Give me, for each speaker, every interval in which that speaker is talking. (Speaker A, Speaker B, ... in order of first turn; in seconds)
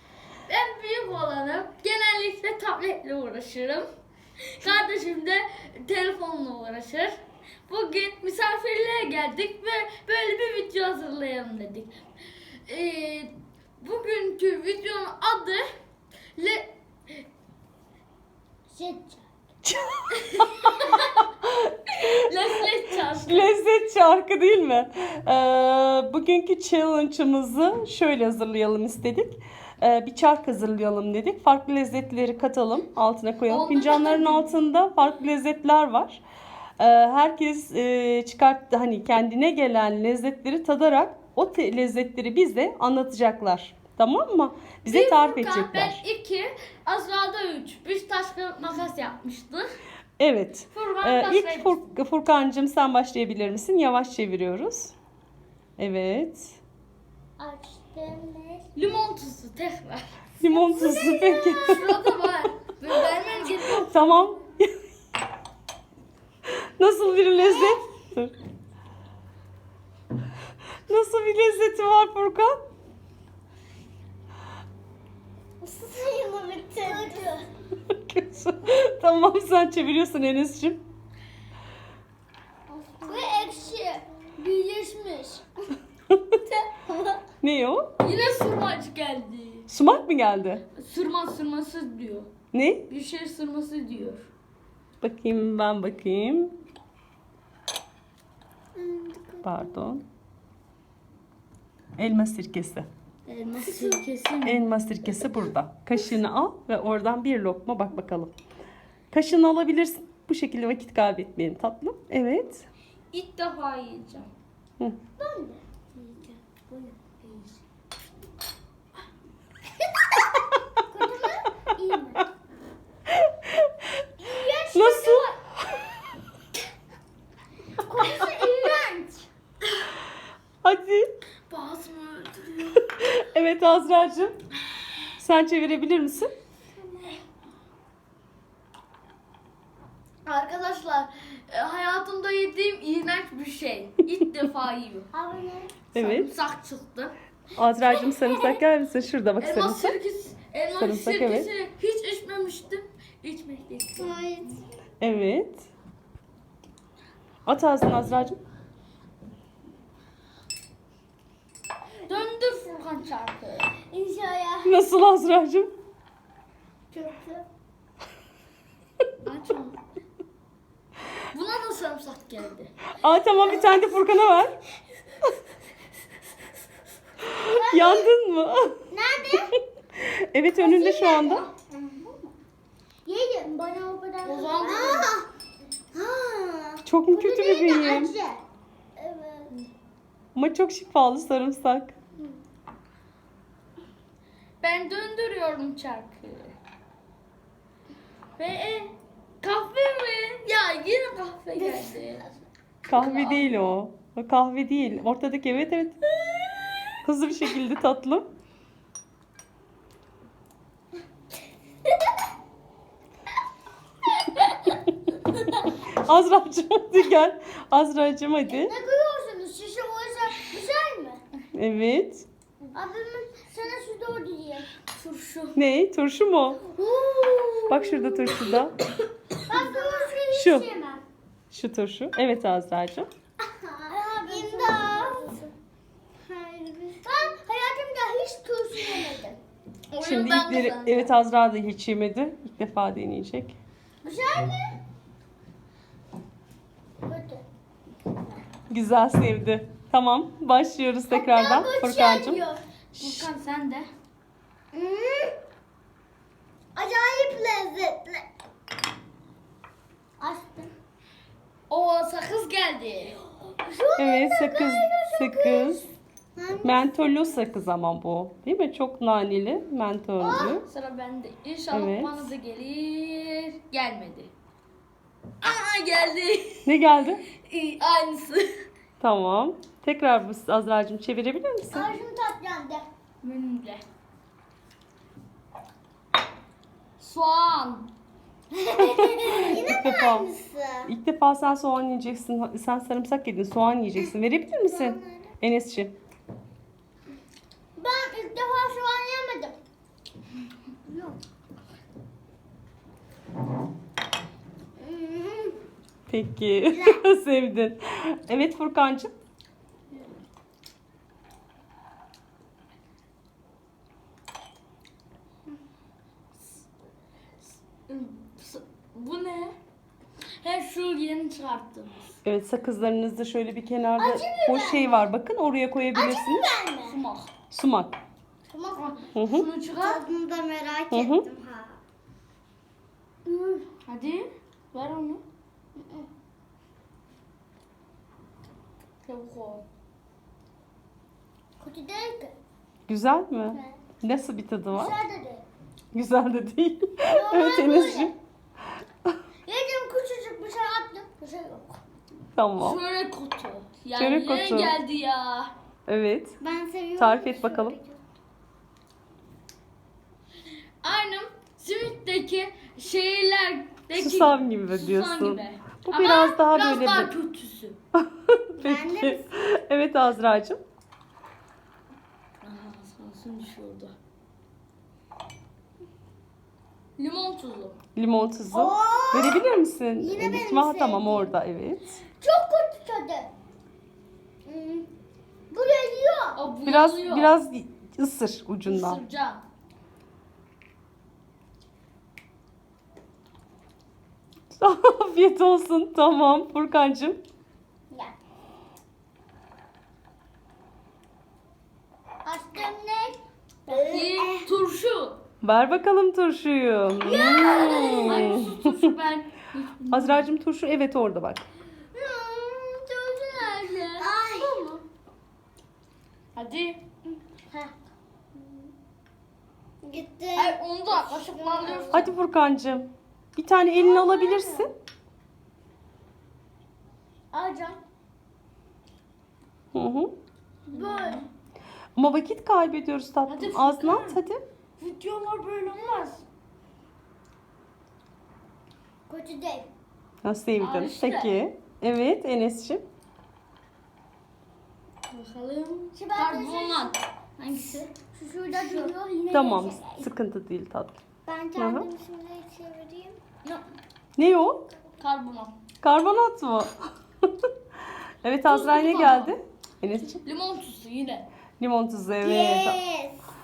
Speaker A: 0.5-3.9, 4.4-15.7, 16.4-17.2, 20.1-21.3, 21.9-23.5, 33.5-34.6, 44.9-49.7, 50.7-51.9, 58.7-60.0, 61.6-64.0, 76.8-77.4, 83.0-85.4, 88.0-89.7, 90.7-92.3, 92.9-94.3, 103.2-104.6, 113.1-114.3, 116.0-117.5, 131.5-132.9, 140.2-145.1, 145.9-147.1, 147.9-148.6, 149.4-154.2, 162.1-163.7, 169.2-169.8, 171.3-172.9, 184.2-185.1, 194.6-196.6, 198.4-202.2, 202.8-203.5, 206.3-206.8, 224.9-225.6, 229.5-230.2, 234.1-235.5, 239.9-241.1, 252.9-253.9, 261.7-263.2, 270.6-274.3, 275.4-276.7, 277.4-278.5, 283.2-283.8, 287.0-287.9, 288.8-289.2, 317.9-319.6, 320.4-322.1, 326.8-327.3, 328.7-330.0, 333.3-335.2, 339.0-339.6, 352.6-355.5, 360.8-367.8, 372.4-373.9, 377.0-377.8, 386.3-387.4, 388.6-389.4, 403.7-405.2, 408.0-410.3, 413.2-414.1, 416.3-416.8, 420.3-422.1, 430.7-431.3, 433.3-434.2, 434.8-436.2, 440.6-441.4, 445.1-447.9, 448.5-448.9, 455.0-455.6, 458.5-459.3, 460.2-461.3
Speaker B: 18.7-19.2, 57.4-58.7, 60.4-61.8, 63.0-63.6, 67.4-67.8, 75.6-77.4, 82.7-84.0, 86.5-87.2, 98.8-99.8, 115.2-115.6, 120.8-122.3, 124.2-125.3, 127.8-129.3, 136.8-137.2, 145.1-145.7, 154.0-154.6, 163.8-164.8, 166.9-167.4, 177.3-178.1, 178.9-179.6, 180.6-182.3, 183.1-185.3, 185.9-188.4, 188.9-189.6, 201.6-202.2, 218.5-221.2, 222.7-224.7, 226.8-228.4, 229.4-231.0, 233.5-235.3, 236.2-239.4, 244.0-244.8, 247.0-247.4, 251.1-252.6, 254.7-255.3, 256.7-258.2, 260.2-260.7, 263.2-265.8, 266.3-266.9, 270.2-270.6, 281.7-282.8, 288.7-290.9, 294.6-295.3, 297.8-299.6, 300.9-301.2, 304.8-305.6, 306.7-307.0, 324.0-325.0, 325.9-327.0, 328.5-329.0, 329.8-331.8, 333.3-333.5, 335.7-336.1, 341.6-342.3, 343.5-343.8, 344.7-345.4, 347.0-348.1, 349.5-351.8, 356.4-358.0, 368.6-369.3, 378.5-379.4, 380.0-381.3, 382.2-383.3, 384.4-384.9, 385.5-386.4, 397.9-398.1, 402.2-404.5, 407.0-408.5, 411.9-413.2, 413.9-414.8, 417.1-417.7, 419.8-422.1, 423.7-424.7, 427.3-427.8, 430.7-431.2, 439.1-439.7, 445.9-446.9, 448.1-450.1, 451.2-453.2, 462.2-463.2
Speaker C: 19.6-20.2, 21.6-22.1, 23.1-36.2, 36.8-46.0, 50.2-54.9, 55.8-56.6, 60.4-61.9, 63.7-64.7, 66.8-68.3, 70.9-72.5, 77.9-80.8, 87.4-87.9, 89.7-90.6, 92.5-92.8, 95.0-96.5, 99.4-100.0, 102.0-102.9, 104.4-108.3, 109.1-112.7, 123.1-123.8, 124.7-125.8, 130.6-131.1, 133.0-134.3, 135.2-136.3, 145.9-146.3, 147.6-150.0, 150.7-151.5, 155.0-155.7, 157.4-158.4, 164.6-165.7, 172.9-174.6, 177.2-178.8, 180.0-181.5, 186.8-188.1, 190.3-191.9, 202.9-206.0, 207.0-208.3, 215.7-218.7, 221.5-222.2, 225.6-226.6, 227.7-228.8, 230.3-230.7, 231.5-233.1, 240.0-243.6, 248.7-252.4, 252.9-253.3, 264.0-265.8, 266.6-270.6, 271.7-272.2, 276.6-277.2, 279.0-282.0, 289.1-290.3, 290.9-295.9, 306.1-309.1, 322.2-326.5, 327.5-328.0, 329.1-329.5, 330.9-331.2, 342.9-344.9, 345.9-348.1, 352.4-352.8, 353.9-354.8, 355.9-356.4, 357.0-357.8, 363.9-367.1, 367.9-370.6, 377.9-381.8, 386.6-389.0, 394.6-397.2, 405.4-408.8, 409.9-411.4, 421.9-424.7, 429.7-430.1, 431.9-434.4, 440.2-442.8, 449.3-451.0, 451.6-451.9, 454.2-454.6, 455.8-457.5, 458.2-460.2, 461.6-462.8